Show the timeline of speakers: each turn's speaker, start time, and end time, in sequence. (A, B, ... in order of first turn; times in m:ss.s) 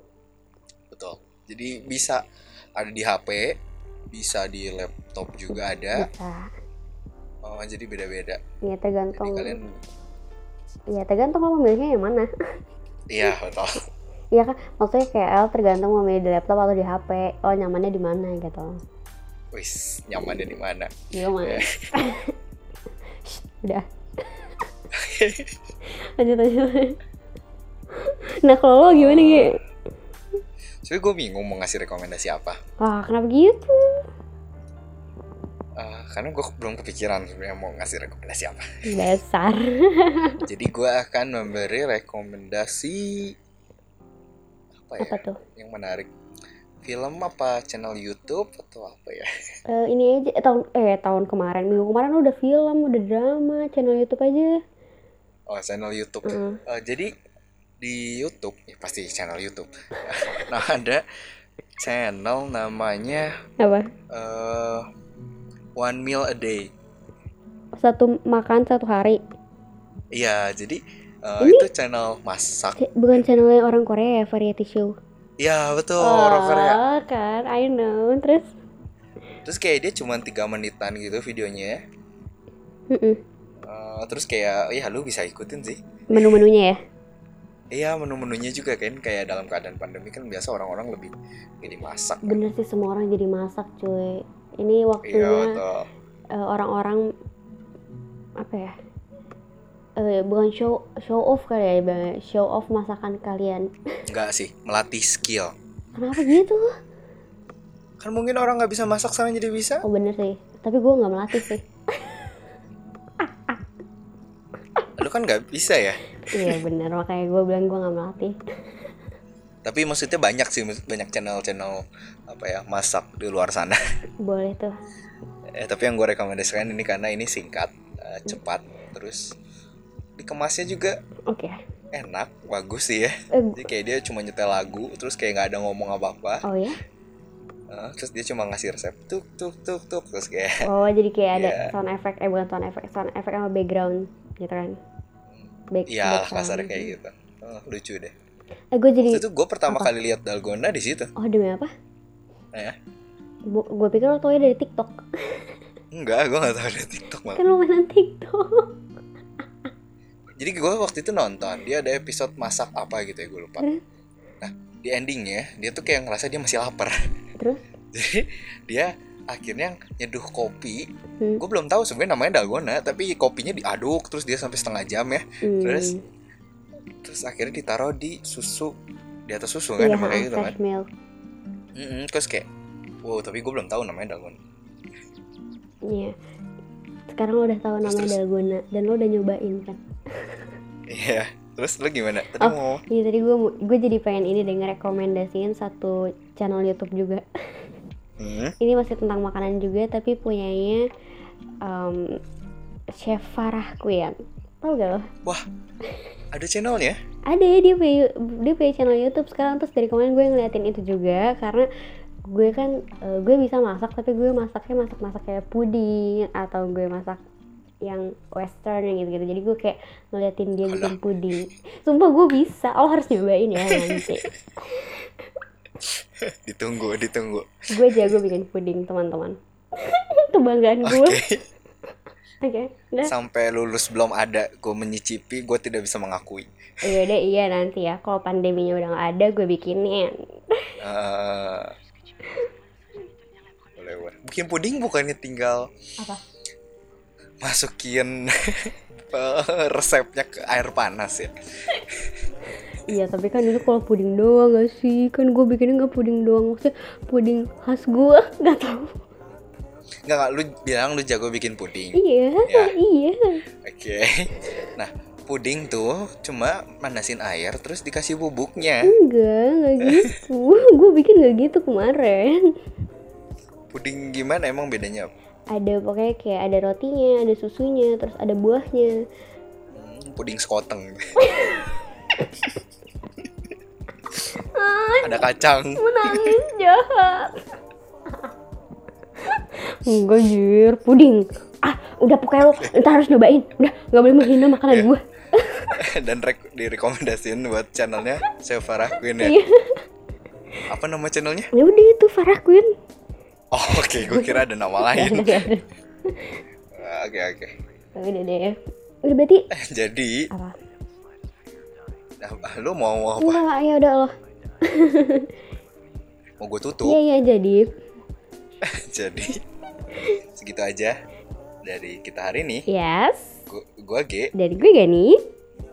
0:00.9-0:02.2 A
0:02.8-0:03.6 A
0:04.1-0:06.1 A
0:05.9-0:06.5 B
0:07.4-0:08.4 A
0:08.6-0:09.6 B
0:09.1-0:09.7 A
0:10.9-0:12.3 B
0:13.1-0:13.8 A
0:14.3-0:18.8 B
0:19.5-0:21.9 A
0:21.1-0:22.3 B
0:23.2-0:24.5 B
0:24.9-0:25.5 A
0:25.8-0:27.0 B
0:27.9-0:29.6 B
0:28.8-0:29.5 A
0:30.8-0:32.6 A
0:32.8-0:34.0 B
0:35.8-0:39.1 A
0:38.8-0:40.4 B
0:40.4-0:43.3 A
0:44.7-0:46.1 A
0:45.0-0:45.4 B
0:46.8-0:49.3 A
0:49.7-0:54.6 B
0:55.5-0:57.1 A
0:56.2-0:56.6 B
0:57.8-1:01.0 A
1:01.8-1:03.3 A
1:03.6-1:03.9 B
1:04.1-1:04.8 A
1:05.8-1:06.7 A
1:07.8-1:09.2 B
1:10.1-1:12.8 A
1:11.4-1:11.6 B
1:12.8-1:14.9 B
1:15.4-1:16.8 A
1:16.0-1:18.5 B
1:19.4-1:21.8 A
1:22.9-1:23.2 B
1:23.6-1:26.4 A
1:26.1-1:26.8 B
1:27.7-1:32.4 A
1:32.2-1:35.6 B
1:35.0-1:35.9 A
1:36.3-1:37.0 B
1:38.4-1:38.7 B
1:40.0-1:43.7 B
1:44.1-1:45.5 A
1:46.0-1:46.8 B
1:48.0-1:49.8 A
1:49.8-1:52.4 B
1:53.2-1:53.6 B
1:55.0-1:56.6 A
1:56.2-1:58.4 B
1:59.6-2:03.8 A
2:04.2-2:04.8 B
2:05.5-2:09.3 A
2:10.2-2:11.0 A
2:11.3-2:11.6 B
2:11.9-2:16.4 A
2:13.3-2:13.7 B
2:16.4-2:16.8 B
2:17.7-2:20.7 A
2:20.6-2:24.8 B
2:21.3-2:21.7 A
2:25.7-2:26.9 B
2:25.9-2:28.1 A
2:28.7-2:29.9 B
2:29.0-2:31.1 A
2:31.2-2:31.7 B
2:33.5-2:35.6 B
2:35.9-2:37.4 A
2:37.4-2:38.7 B
2:40.4-2:43.7 A
2:44.4-2:47.0 A
2:47.9-2:50.9 A
2:51.4-2:55.9 A
2:55.4-2:56.0 B
2:57.0-2:58.7 A
2:59.3-3:00.5 A
2:59.8-3:00.9 B
3:01.8-3:02.5 A
3:03.0-3:04.4 A
3:05.8-3:06.1 B
3:07.1-3:10.5 B
3:07.8-3:08.2 A
3:10.9-3:12.8 A
3:12.3-3:17.7 B
3:18.2-3:18.6 A
3:18.6-3:20.8 B
3:21.6-3:22.2 B
3:22.9-3:25.1 B
3:26.3-3:27.0 A
3:27.3-3:31.7 B
3:32.3-3:37.2 B
3:37.8-3:45.3 B
3:40.7-3:41.0 A
3:43.7-3:44.3 A
3:45.8-3:48.1 A
3:47.7-3:51.2 B
3:50.8-3:51.4 A
3:52.4-3:53.1 B
3:53.0-3:56.5 A
3:56.8-4:00.7 B
4:00.8-4:01.7 A
4:02.2-4:02.5 B
4:03.7-4:05.7 A
4:07.4-4:12.2 A
4:12.8-4:19.0 B
4:20.0-4:22.7 A
4:21.9-4:23.4 B
4:23.6-4:28.9 A
4:28.8-4:32.5 B
4:33.7-4:35.1 A
4:35.5-4:39.0 B
4:39.7-4:41.5 A
4:41.2-4:41.7 B
4:43.2-4:43.5 A
4:44.3-4:45.2 B
4:45.0-4:46.4 A
4:45.8-4:47.5 B
4:49.2-4:55.8 B
4:52.4-4:52.8 A
4:54.2-4:54.9 A
4:55.8-4:59.4 A
4:59.2-4:59.8 B
5:00.7-5:01.5 A
5:01.5-5:02.6 B
5:03.5-5:05.5 A
5:04.0-5:06.4 B
5:06.7-5:07.5 A
5:08.0-5:09.4 B
5:09.5-5:10.3 A
5:10.3-5:10.6 B
5:12.2-5:13.4 A
5:13.2-5:15.3 B
5:16.4-5:17.0 A
5:16.8-5:17.7 B
5:18.6-5:19.4 A
5:20.0-5:20.9 A
5:21.6-5:22.7 A
5:22.7-5:23.4 B
5:23.5-5:24.3 A
5:24.4-5:25.2 B